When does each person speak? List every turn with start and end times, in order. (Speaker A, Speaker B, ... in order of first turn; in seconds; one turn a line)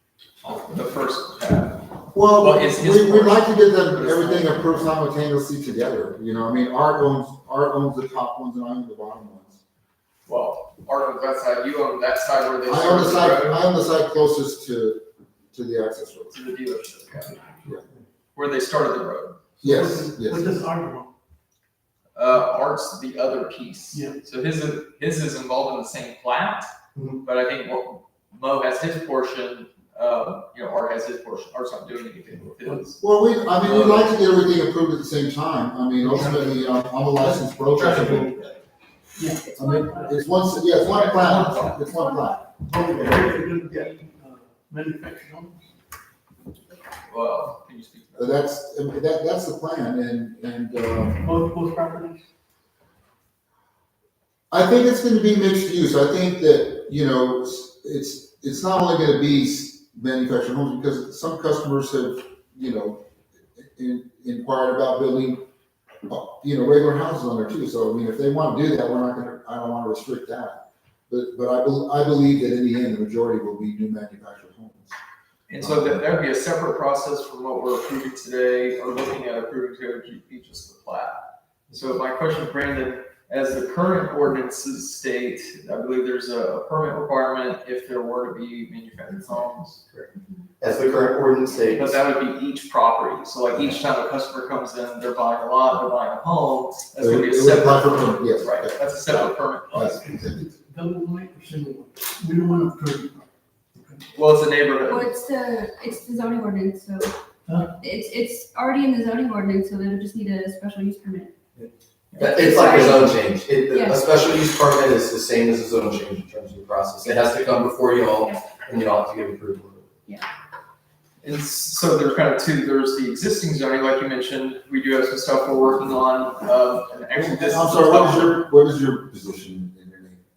Speaker A: 0.4-5.0
Speaker B: 2.1-9.6
Speaker A: 10.2-13.6
Speaker B: 12.7-16.4
Speaker A: 16.3-17.4
Speaker C: 17.3-17.6
Speaker A: 18.3-19.4
Speaker C: 19.6-21.1
Speaker B: 19.6-20.6
Speaker A: 22.1-26.7
Speaker C: 23.9-24.2
Speaker D: 26.9-27.2
Speaker A: 27.2-33.0
Speaker B: 33.0-38.3
Speaker A: 33.6-34.2
Speaker D: 37.7-38.5
Speaker C: 39.2-40.1
Speaker E: 39.3-40.2
Speaker B: 39.6-42.4
Speaker A: 40.9-41.8
Speaker E: 40.9-42.4
Speaker C: 42.6-45.6
Speaker A: 47.0-48.4
Speaker B: 48.1-51.3
Speaker C: 51.2-52.2
Speaker B: 54.5-65.4
Speaker B: 66.1-75.0
Speaker A: 75.5-89.8
Speaker B: 75.6-76.0
Speaker D: 89.9-92.0
Speaker A: 91.7-100.0
Speaker B: 97.0-100.4
Speaker C: 99.7-104.0
Speaker A: 104.1-105.2
Speaker E: 104.9-107.1
Speaker C: 107.5-107.7
Speaker E: 107.8-111.3
Speaker D: 111.5-119.9
Speaker A: 112.2-113.0
Speaker E: 112.2-113.2
Speaker E: 113.7-114.0
Speaker A: 121.2-128.4
Speaker B: 127.1-130.2